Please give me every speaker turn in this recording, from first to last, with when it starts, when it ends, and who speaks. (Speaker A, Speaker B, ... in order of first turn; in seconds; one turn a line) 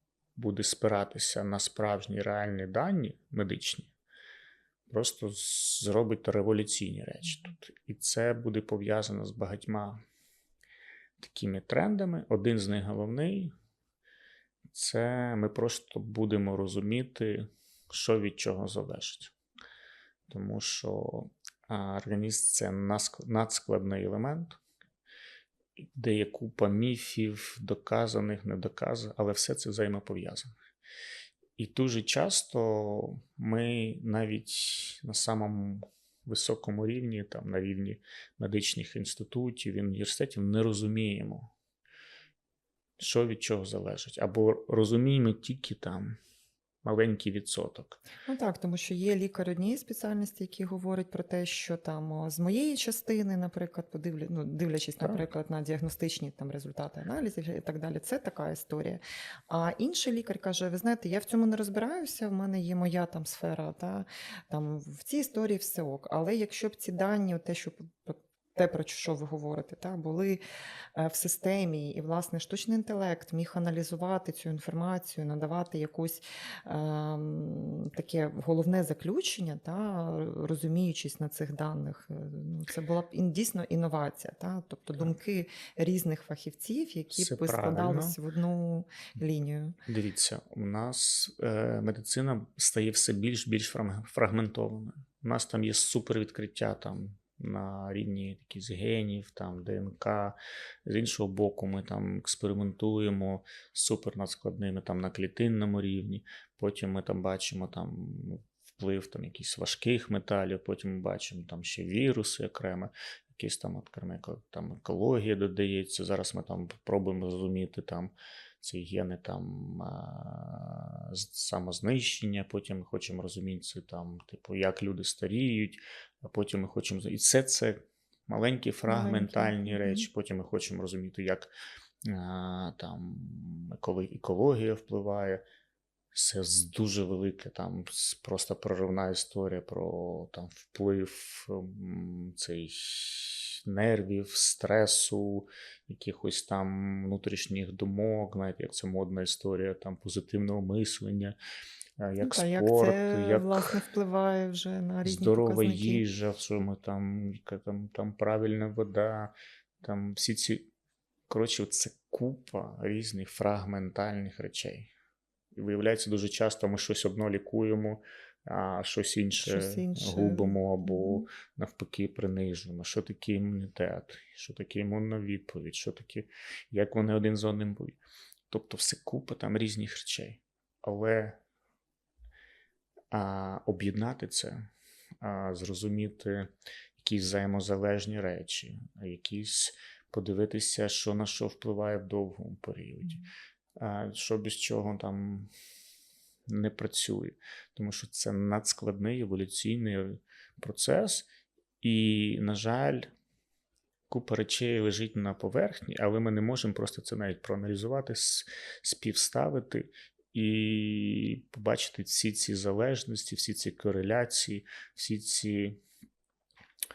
Speaker A: 0.3-3.9
Speaker A: 4.9-10.0
Speaker A: 11.2-13.5
Speaker A: 14.7-19.3
Speaker A: 20.3-24.6
Speaker A: 25.9-30.5
Speaker A: 31.6-41.5
Speaker A: 43.0-46.2
Speaker A: 46.8-48.0
Speaker B: 48.2-70.4
Speaker A: 55.0-55.2
Speaker B: 70.9-89.7
Speaker A: 87.1-88.2
Speaker A: 89.8-131.5
Speaker B: 128.8-130.1
Speaker A: 132.0-135.4
Speaker A: 136.1-151.3
Speaker A: 152.0-153.7
Speaker B: 152.2-156.0
Speaker A: 155.0-160.7
Speaker A: 161.3-164.9
Speaker A: 165.5-181.4
Speaker B: 169.4-171.2
Speaker A: 183.1-184.7
Speaker A: 185.2-193.2
Speaker A: 193.8-195.5
Speaker A: 196.5-201.3
Speaker A: 201.8-203.1
Speaker A: 204.1-215.8